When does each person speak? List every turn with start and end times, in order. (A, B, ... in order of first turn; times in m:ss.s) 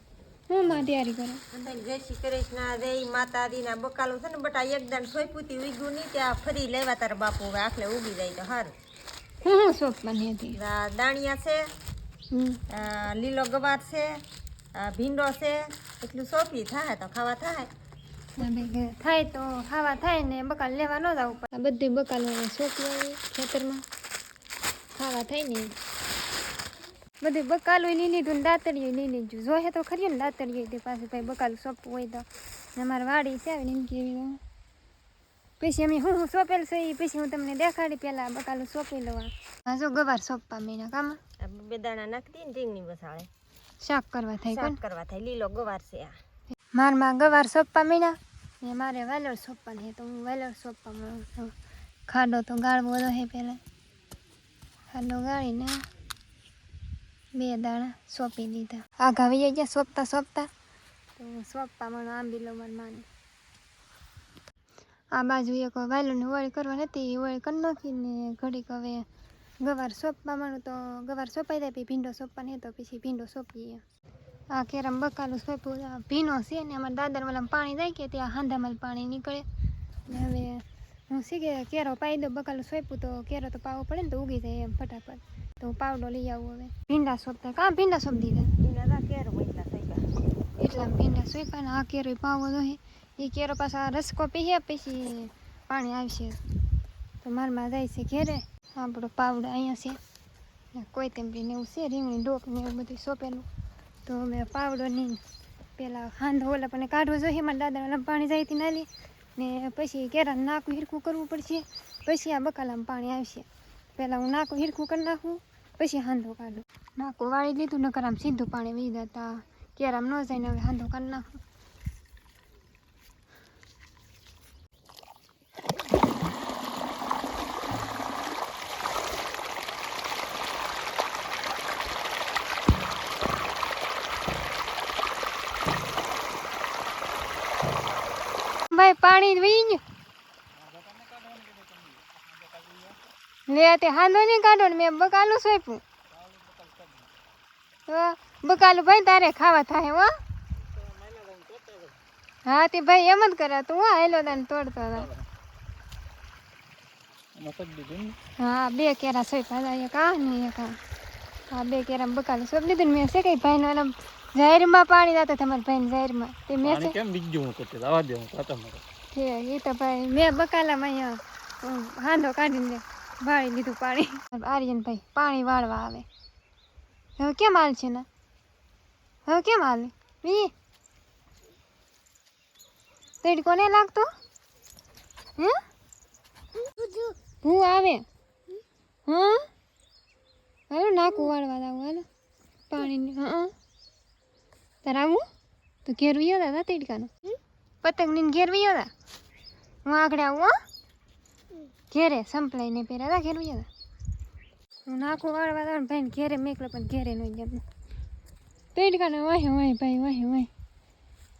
0:00.5-0:01.4 A
0:01.5-0:08.7 B
0:09.4-0:10.6 A
0:10.5-0:11.6 B
0:12.3-0:12.6 A
0:12.7-0:14.1 B
0:14.8-0:17.7 B
0:18.4-0:23.8 A
0:25.0-0:25.7 A
0:27.2-0:32.2 A
0:32.8-0:34.4 A
0:35.6-0:41.2 A
0:41.4-0:43.3 B
0:43.8-0:44.8 A
0:44.5-0:46.2 B
0:46.7-0:51.5 A
0:52.1-0:53.6 A
0:54.9-0:55.8 A
0:57.3-1:00.5 A
1:01.2-1:03.0 A
1:05.2-1:09.0 A
1:09.6-1:13.8 A
1:14.5-1:19.4 A
1:20.1-1:28.5 A
1:28.5-1:30.0 B
1:30.6-1:36.4 A
1:37.2-1:40.0 A
1:40.8-1:43.5 A
1:44.0-1:45.2 A
1:45.8-2:01.4 A
2:18.7-2:19.8 A
2:20.6-2:23.0 C
2:23.5-2:25.8 A
2:26.1-2:27.1 C
2:27.9-2:30.1 A
2:30.9-2:32.0 C
2:32.4-2:35.1 A
2:37.3-2:38.2 C
2:38.4-2:40.8 A
2:41.5-2:47.0 A
2:46.6-2:48.8 C
2:49.1-2:56.1 A
2:57.2-2:58.1 A
2:59.2-3:00.5 A
3:03.2-3:04.1 A
3:07.4-3:08.0 A
3:09.1-3:09.5 A
3:10.7-3:12.0 A
3:12.7-3:13.5 A
3:14.8-3:15.2 A
3:15.8-3:17.1 A
3:17.8-3:18.9 A
3:19.8-3:20.5 A
3:21.9-3:23.7 A
3:24.9-3:27.6 A
3:28.7-3:30.5 A